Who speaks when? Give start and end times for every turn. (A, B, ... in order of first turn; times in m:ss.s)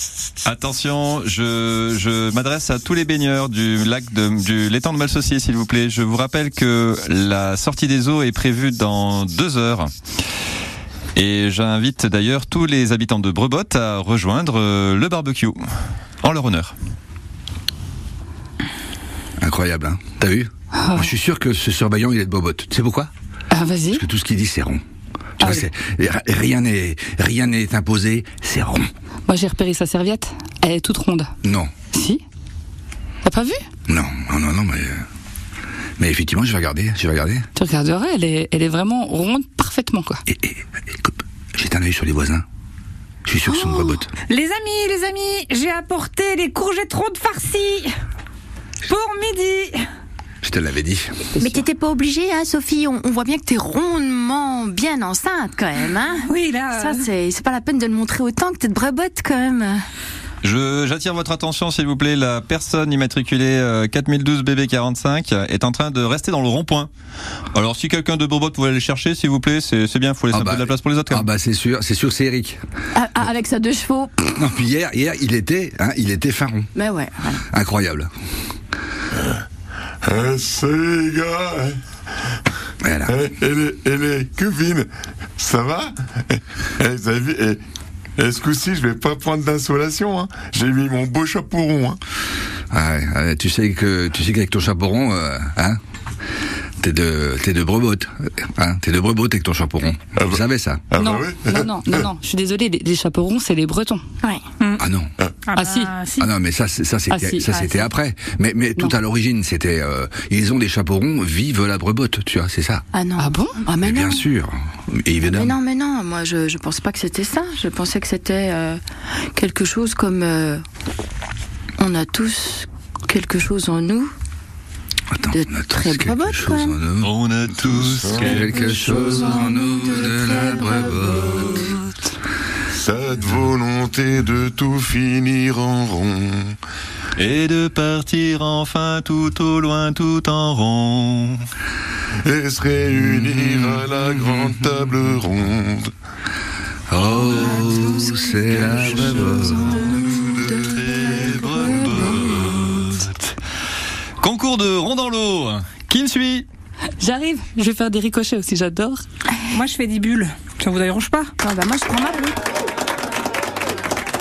0:00.4-0:09.9 A
0:11.2-0:15.6 A
0:16.2-0:16.7 A
0:19.4-0:23.1 B
0:20.8-0:21.1 C
0:23.5-0:24.0 C
0:23.9-0:24.8 B
0:25.4-0:28.9 B
0:29.3-0:31.3 C
0:31.4-0:31.7 B
0:31.9-0:32.2 C
0:33.2-0:33.6 C
0:33.9-0:35.0 B
0:36.0-0:37.5 B
0:37.6-0:40.2 C
0:40.3-0:42.4 B
0:43.2-0:44.1 B
0:43.5-0:44.1 C
0:44.3-0:48.0 D
0:48.8-0:49.9 D
0:50.4-0:51.3 B
0:51.4-0:59.8 E
0:56.2-0:57.1 D
1:00.4-1:06.9 A
1:07.5-1:11.3 A
1:10.3-1:12.6 B
1:13.0-1:14.4 E
1:14.4-1:16.7 B
1:16.8-1:17.4 E
1:17.5-1:18.1 B
1:20.0-1:21.8 F
1:22.8-1:23.1 B
1:23.1-1:27.6 F
1:28.2-1:32.0 F
1:32.7-1:35.8 B
1:36.8-1:40.9 B
1:40.9-1:42.1 F
1:40.9-1:44.0 C
1:44.8-1:45.1 B
1:45.5-1:46.3 D
1:45.5-1:46.0 C
1:46.2-1:52.8 B
1:47.1-1:47.9 C
1:52.9-1:54.3 E
1:53.2-1:53.6 C
1:53.8-1:55.6 B
1:55.3-2:00.6 E
2:01.8-2:04.1 E
2:05.1-2:07.1 B
2:05.3-2:06.8 E
2:07.0-2:09.1 A
2:07.8-2:08.5 F
2:08.1-2:11.7 B
2:08.5-2:11.6 E
2:12.7-2:16.6 F
2:17.2-2:21.4 A
2:22.2-2:25.9 F
2:26.9-2:29.9 B
2:27.6-2:30.1 E
2:28.6-2:28.9 A
2:30.1-2:33.3 A
2:31.3-2:31.9 E
2:34.2-2:36.5 A
2:37.0-2:39.0 C
2:39.5-2:41.3 D
2:41.4-2:42.4 E